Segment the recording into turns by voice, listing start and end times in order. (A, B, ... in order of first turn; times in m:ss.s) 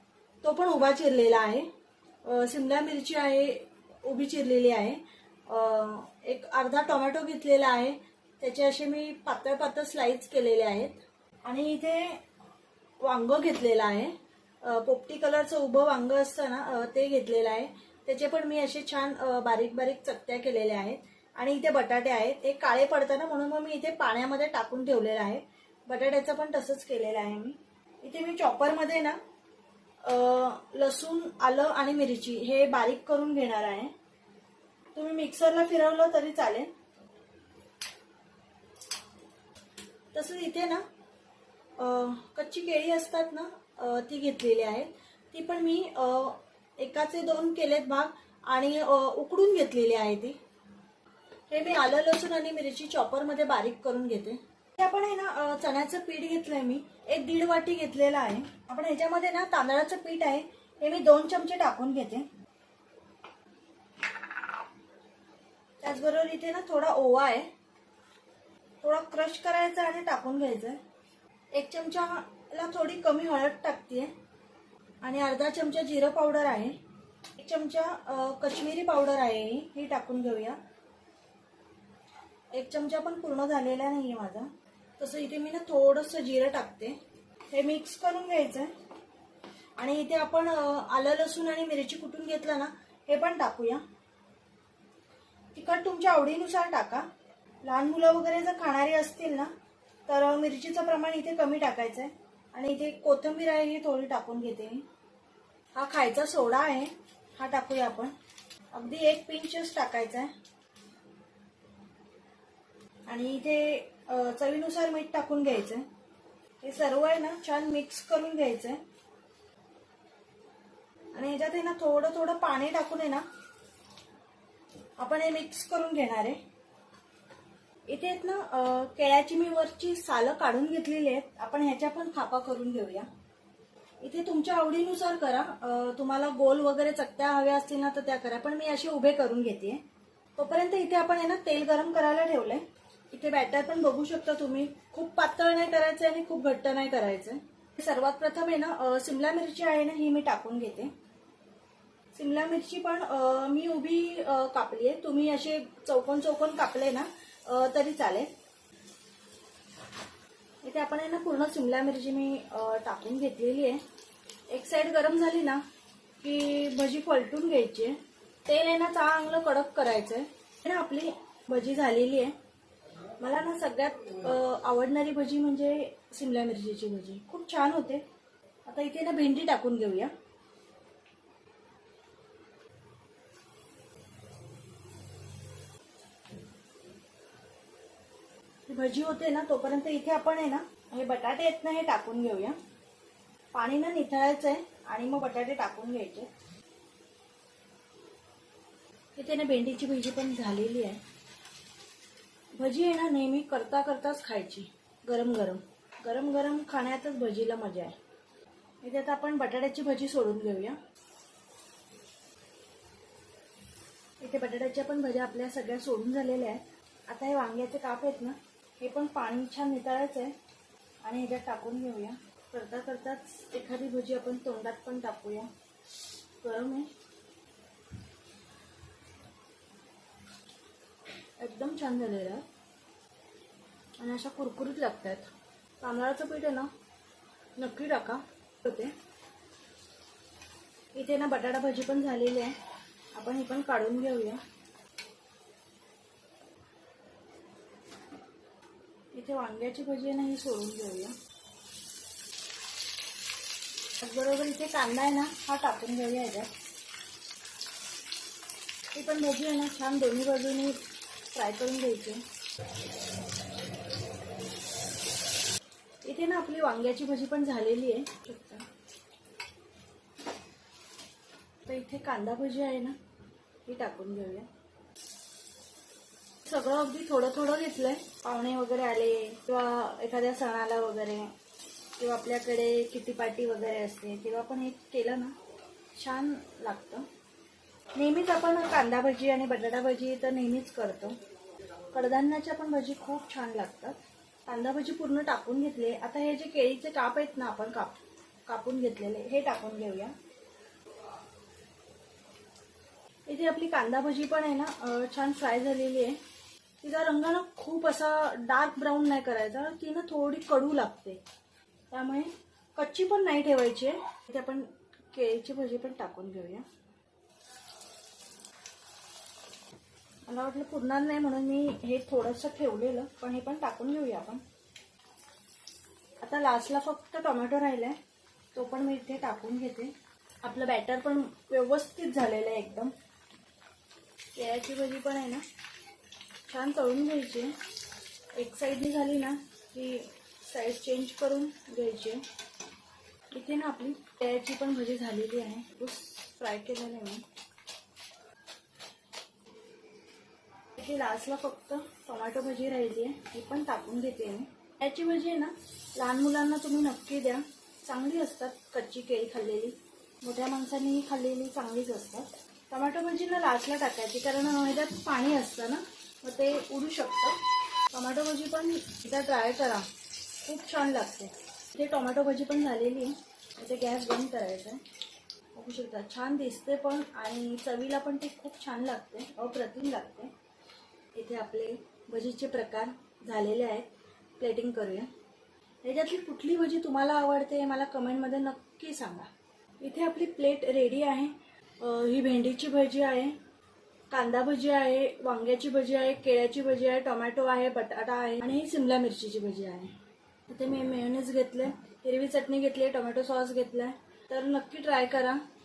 0:00.4-0:01.7 A
0:02.2-0:12.2 A
0:13.0-0:29.2 A
0:30.0-0:33.9 A
0:35.0-0:36.7 A
0:40.1-0:40.8 A
0:41.8-0:50.4 A
0:51.5-1:02.3 A
1:05.8-1:07.5 A
1:08.8-1:10.8 A
1:11.5-1:14.1 A
1:15.0-1:16.8 A
1:17.4-1:20.6 A
1:22.5-1:27.0 A
1:27.5-1:28.7 A
1:29.8-1:33.8 A
1:35.5-1:37.1 A
1:37.6-1:39.5 A
1:40.1-1:44.8 A
1:45.8-1:48.1 A
1:48.7-1:50.3 A
1:53.1-1:55.9 A
1:56.6-1:58.8 A
2:01.1-2:03.2 A
2:05.0-2:06.4 A
2:07.9-2:13.1 A
2:14.0-2:19.8 A
2:20.4-2:30.9 A
2:32.1-2:38.3 A
2:40.6-2:43.8 A
2:44.5-2:45.6 A
2:46.2-2:52.4 A
2:53.2-2:58.0 A
2:58.6-3:00.1 A
3:08.7-3:12.6 A
3:13.5-3:16.3 A
3:19.2-3:21.0 A
3:22.6-3:28.0 A
3:28.8-3:30.8 A
3:34.2-3:40.3 A
3:41.0-3:45.5 A
3:46.4-3:46.9 A
3:51.4-3:52.4 A
3:54.0-3:56.7 A
3:57.6-3:58.9 A
4:00.9-4:02.6 A
4:03.1-4:04.4 A
4:09.1-4:11.1 A
4:14.0-4:16.5 A
4:18.9-4:20.8 A
4:21.3-4:22.2 A
4:26.0-4:28.7 A
4:31.6-4:33.0 A
4:33.7-4:34.5 A
4:36.4-4:41.3 A
4:42.0-4:45.4 A
4:46.0-4:47.1 A
4:48.0-4:51.2 A
4:51.9-5:00.1 A
5:03.3-5:06.2 A
5:06.8-5:11.2 A
5:11.9-5:16.7 A
5:20.3-5:24.4 A
5:26.2-5:28.0 A
5:28.5-5:32.9 A
5:34.4-5:35.4 A
5:36.5-5:37.6 A
5:38.3-5:42.3 A
5:43.3-5:47.2 A
5:50.8-6:09.9 A
6:10.4-6:14.8 A
6:15.5-6:20.3 A
6:21.1-6:25.1 A
6:25.8-6:33.4 A
6:34.1-6:40.0 A
6:40.5-6:45.4 A